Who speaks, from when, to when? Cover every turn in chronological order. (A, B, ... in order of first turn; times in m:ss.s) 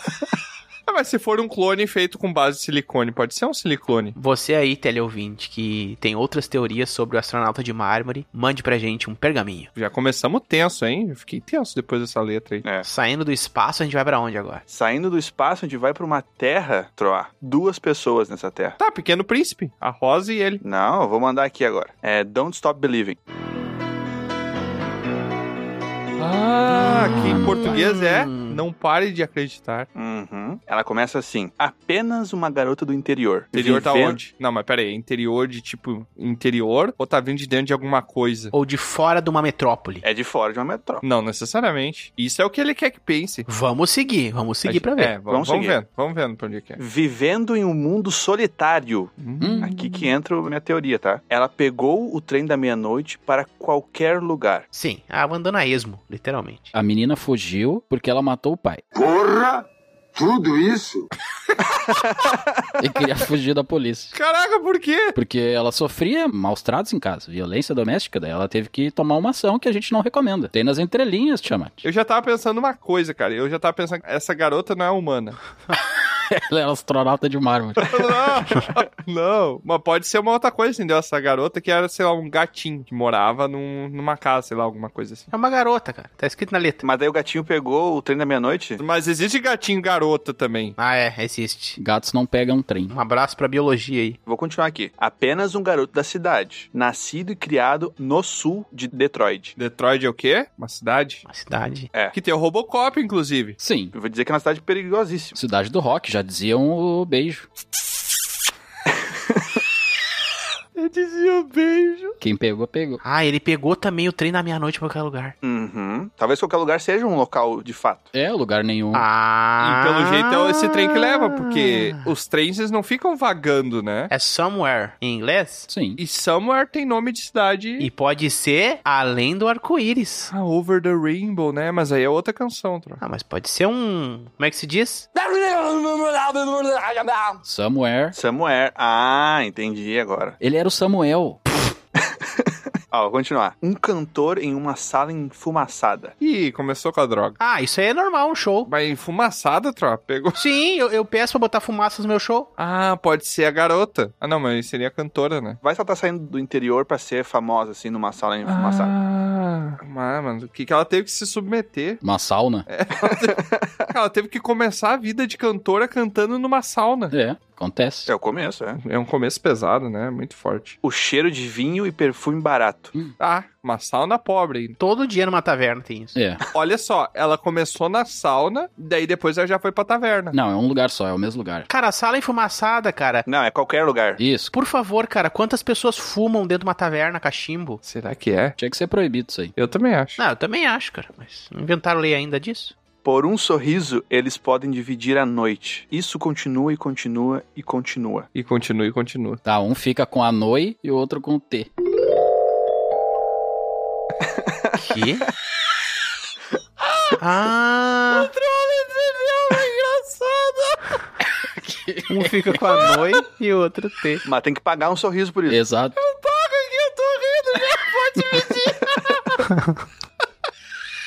0:00.9-0:04.2 A
0:04.2-0:09.7 B
0:09.8-0:12.6 A
0:12.8-0:14.6 B
0:14.7-0:18.8 C
0:18.8-0:20.6 A
0:20.6-0:23.2 C
0:26.2-0:29.9 A
0:26.7-0:28.6 B
0:26.8-0:27.8 D
0:29.9-0:34.2 C
0:33.5-0:38.5 A
0:38.5-0:40.0 B
0:40.0-0:41.0 C
0:41.0-0:43.4 A
0:43.5-0:45.2 B
0:44.6-0:46.8 A
0:45.2-0:45.8 C
0:46.8-0:54.7 C
0:49.2-0:50.1 A
0:49.4-0:49.7 D
0:54.7-0:56.7 B
0:56.7-0:58.8 D
0:58.9-1:01.0 E
1:02.8-1:04.1 D
1:04.1-1:05.2 A
1:05.1-1:11.8 D
1:11.8-1:15.4 A
1:16.3-1:18.0 D
1:17.9-1:25.3 A
1:25.3-1:26.8 B
1:26.8-1:28.8 C
1:28.8-1:30.8 A
1:30.8-1:31.8 B
1:31.8-1:32.9 D
1:32.9-1:34.2 B
1:34.2-1:39.5 C
1:39.6-1:41.2 A
1:41.3-1:41.9 B
1:42.1-1:43.6 A
1:43.6-1:43.9 D
1:43.9-1:45.4 C
1:45.3-1:47.4 D
1:50.8-1:52.2 A
1:52.2-1:53.0 D
1:53.0-1:55.4 B
1:55.4-1:58.1 C
1:58.1-1:59.0 D
1:58.9-2:01.9 B
1:59.6-2:04.1 A
2:04.1-2:05.7 B
2:05.7-2:06.0 D
2:06.0-2:07.9 A
2:07.8-2:10.3 B
2:10.3-2:13.0 A
2:13.0-2:15.1 B
2:17.4-2:18.2 D
2:18.1-2:20.4 C
2:20.4-2:21.4 D
2:22.4-2:26.1 C
2:26.2-2:27.4 A
2:27.4-2:28.7 B
2:28.6-2:30.4 A
2:30.4-2:32.5 B
2:32.6-2:35.6 A
2:35.6-2:38.9 C
2:38.4-2:42.0 A
2:42.0-2:42.6 D
2:42.7-2:47.1 A
2:43.0-2:43.9 C
2:47.1-2:48.1 D
2:48.1-2:48.8 C
2:48.8-2:50.8 A
2:50.8-2:52.9 C
2:53.2-2:54.8 A
2:54.8-2:56.2 B
2:56.1-2:56.4 D
2:56.5-3:00.4 A
3:00.3-3:01.7 D
3:01.7-3:03.2 B
3:03.2-3:04.2 C
3:04.2-3:04.5 D
3:04.5-3:07.8 B
3:07.8-3:08.6 A
3:08.6-3:09.5 D
3:09.6-3:10.2 A
3:10.2-3:12.7 B
3:13.0-3:18.3 C
3:18.3-3:19.4 A
3:19.4-3:21.7 D
3:24.8-3:25.3 B
3:27.2-3:28.3 B
3:28.1-3:30.8 A
3:31.6-3:32.3 D
3:32.1-3:34.2 B
3:34.2-3:35.6 C
3:35.5-3:35.9 D
3:36.0-3:39.4 A